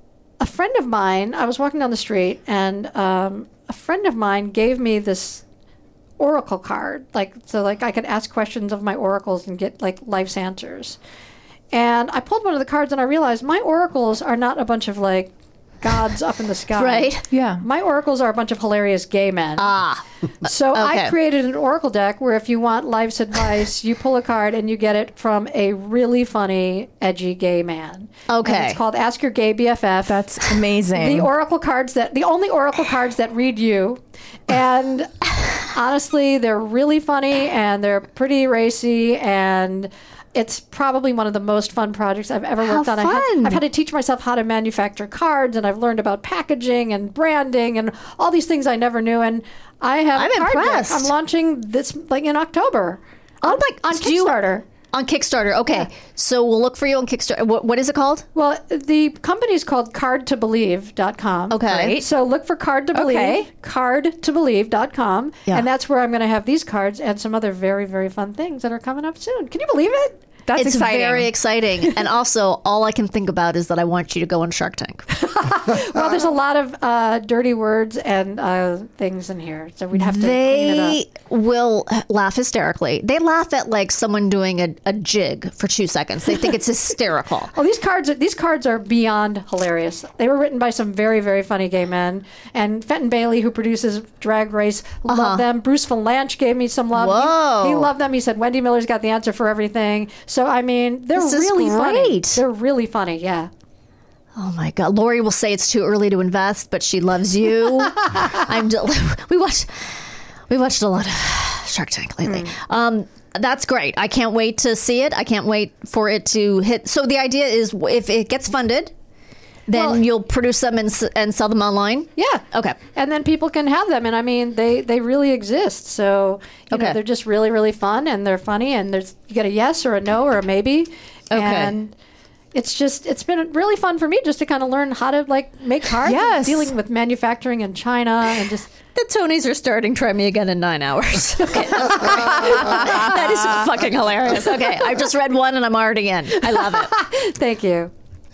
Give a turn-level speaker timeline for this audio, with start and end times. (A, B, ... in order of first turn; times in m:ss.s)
0:00.4-0:05.4 A
0:06.2-0:11.0 A
0:11.7-0:19.8 A
0:16.8-0:17.2 B
0:17.3-0:17.6 C
0:19.6-0:21.2 B
0:20.4-0:30.3 A
0:28.3-0:28.8 B
0:30.1-0:31.3 C
0:30.9-0:54.7 A
0:42.6-0:43.6 B
0:50.1-0:51.1 B
0:53.4-0:54.4 B
0:54.9-0:58.3 B
0:58.4-1:10.2 A
1:01.5-1:02.0 B
1:02.9-1:03.5 C
1:10.4-1:11.3 C
1:10.6-1:15.1 B
1:15.1-1:21.0 A
1:19.9-1:27.5 B
1:27.5-1:43.5 A
1:35.1-1:35.4 B
1:36.9-1:37.9 B
1:41.1-1:42.4 B
1:44.4-1:49.9 B
1:50.5-1:58.9 B
1:52.3-1:52.5 A
1:59.7-2:02.8 B
1:59.7-2:00.0 A
2:02.2-2:12.0 A
2:06.7-2:07.0 B
2:11.3-2:11.7 B
2:12.5-2:18.7 A
2:16.0-2:16.7 C
2:18.9-2:26.9 B
2:21.8-2:23.1 A
2:26.4-2:27.9 A